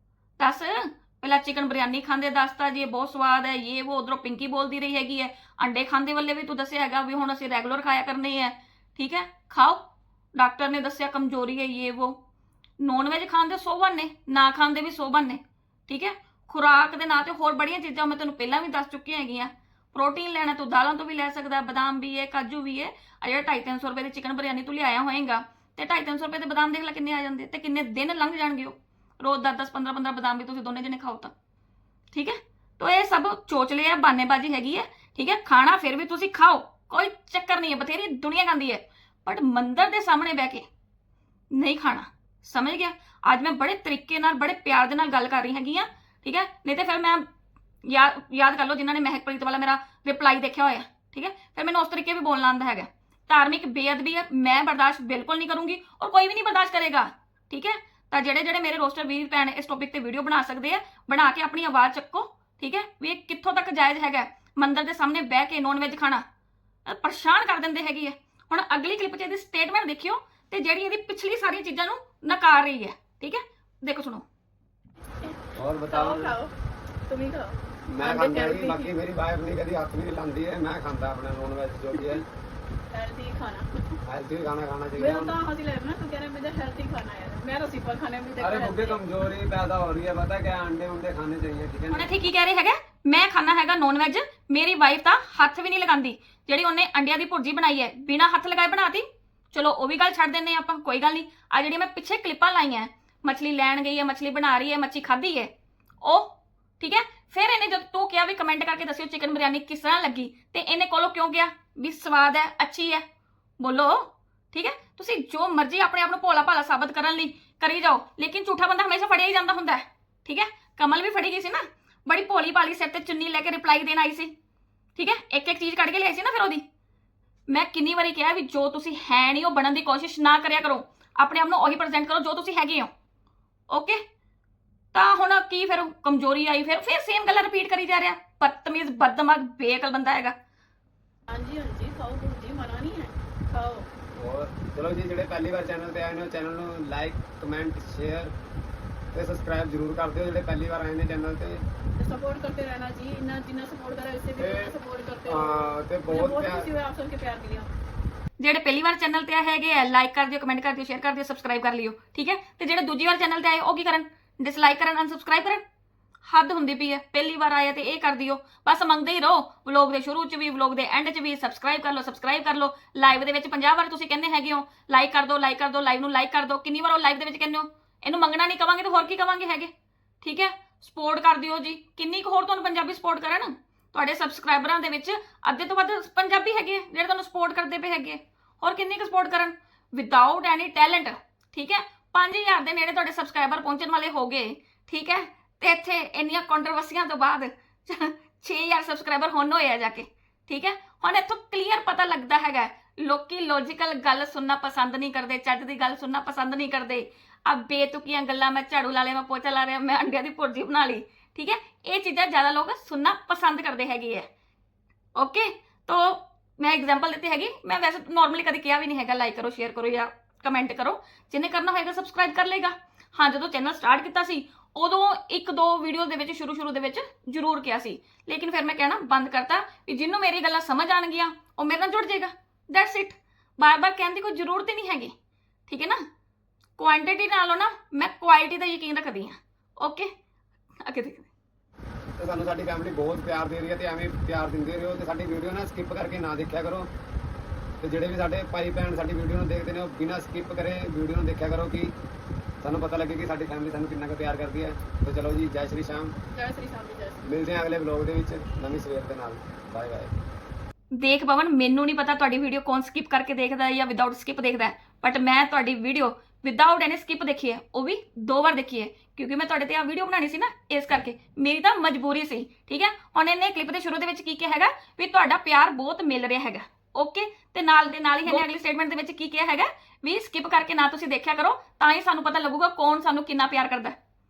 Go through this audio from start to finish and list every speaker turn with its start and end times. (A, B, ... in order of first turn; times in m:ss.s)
0:00.4-0:09.8 A
0:10.4-0:12.2 A
0:12.8-0:31.3 A
0:32.1-0:40.7 A
0:41.5-0:47.3 A
0:47.8-1:06.2 A
1:06.9-1:14.2 A
1:15.6-1:16.4 B
1:15.9-1:16.5 C
1:17.1-1:18.9 C
1:17.9-1:22.2 B
1:22.9-1:24.0 C
1:24.0-1:25.4 B
1:25.0-1:29.0 C
1:28.4-1:32.1 B
1:31.9-1:45.5 A
1:46.0-1:53.0 A
1:53.6-2:04.3 A
2:05.0-2:06.6 A
2:07.5-2:12.9 A
2:13.7-2:14.0 A
2:14.9-2:20.4 A
2:21.3-2:23.9 C
2:24.2-2:28.3 B
2:29.1-2:31.6 B
2:32.0-2:37.7 C
2:34.4-2:34.7 B
2:35.2-2:36.7 B
2:38.4-2:45.6 A
2:46.3-3:34.3 A
3:35.2-3:55.1 A
3:55.7-3:56.0 A
3:56.8-4:00.1 A
4:00.8-4:01.3 A
4:02.2-4:06.9 B
4:07.8-4:11.9 B
4:12.6-4:16.1 B
4:16.3-4:17.2 C
4:17.2-4:20.1 B
4:20.9-4:44.0 A